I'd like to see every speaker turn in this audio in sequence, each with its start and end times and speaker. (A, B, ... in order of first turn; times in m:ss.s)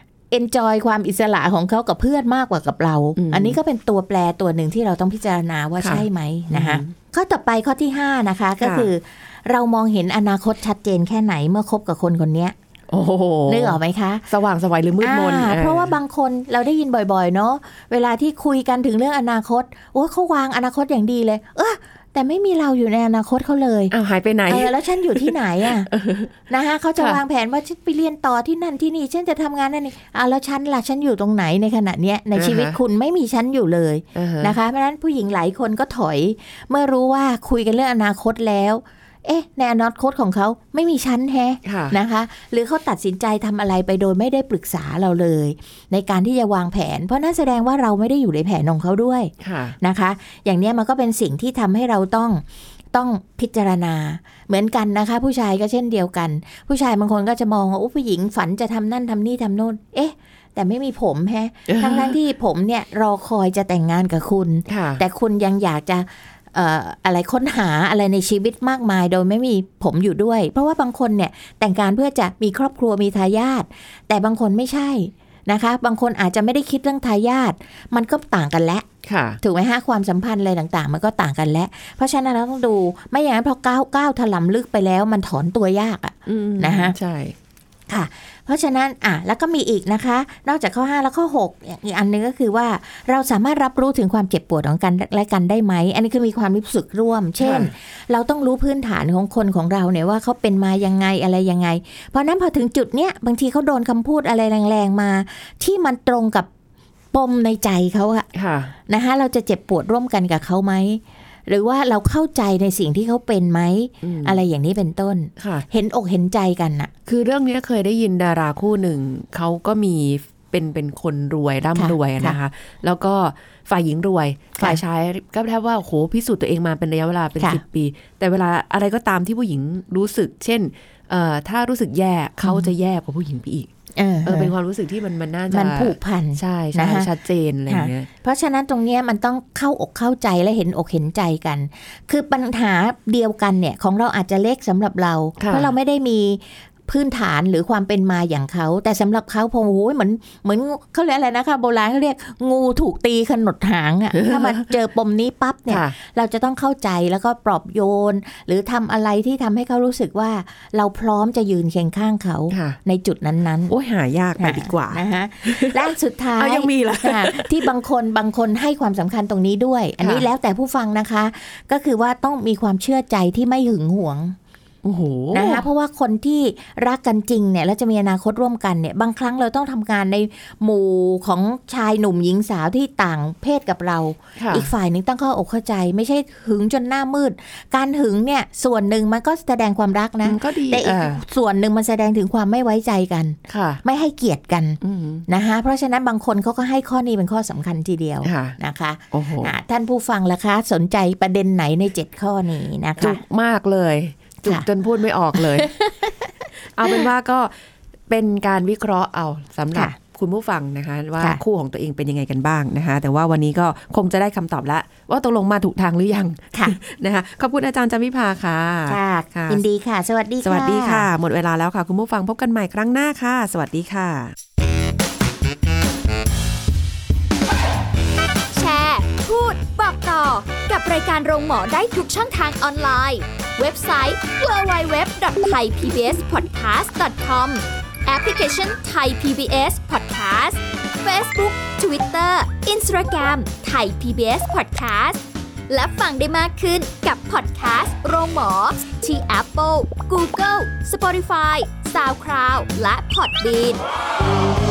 0:00.3-0:12.5 A
0:03.2-0:03.6 B
0:05.8-0:06.9 B
0:08.6-0:08.9 B
0:12.9-0:16.0 B
0:13.5-0:14.2 A
0:15.0-0:23.9 A
0:23.9-0:26.3 B
0:24.5-0:25.9 A
0:26.5-0:52.4 A
0:32.4-0:32.8 B
0:34.1-0:34.5 B
0:41.6-0:42.0 B
0:49.4-0:49.8 B
0:52.9-1:18.8 A
1:01.7-1:02.2 B
1:04.7-1:05.0 B
1:19.0-1:19.4 B
1:19.4-1:26.9 A
1:26.3-1:27.4 B
1:27.9-1:46.5 A
1:37.4-1:37.7 B
1:47.1-1:48.3 A
1:48.3-1:48.7 B
1:48.9-1:56.9 A
1:54.0-1:54.4 B
1:55.4-1:55.6 B
1:57.1-2:13.7 B
2:01.8-2:02.4 A
2:12.4-2:12.7 A
2:14.0-2:14.5 A
2:14.2-2:18.1 B
2:15.5-2:17.1 A
2:17.7-2:43.7 A
2:25.4-2:25.7 B
2:34.2-2:34.6 B
2:35.7-2:35.9 B
2:42.5-2:42.8 B
2:43.7-2:47.7 B
2:44.4-2:54.4 A
2:50.0-2:50.2 B
2:54.8-2:55.6 B
2:55.3-3:23.2 A
3:04.4-3:04.7 B
3:10.2-3:11.2 B
3:13.5-3:13.8 B
3:14.8-3:15.2 B
3:18.2-3:18.6 B
3:19.1-3:19.5 B
3:23.0-3:25.7 B
3:25.3-3:26.3 A
3:26.7-3:27.5 B
3:28.1-3:39.6 B
3:38.9-3:41.1 A
3:40.4-3:44.3 B
3:48.5-4:13.8 C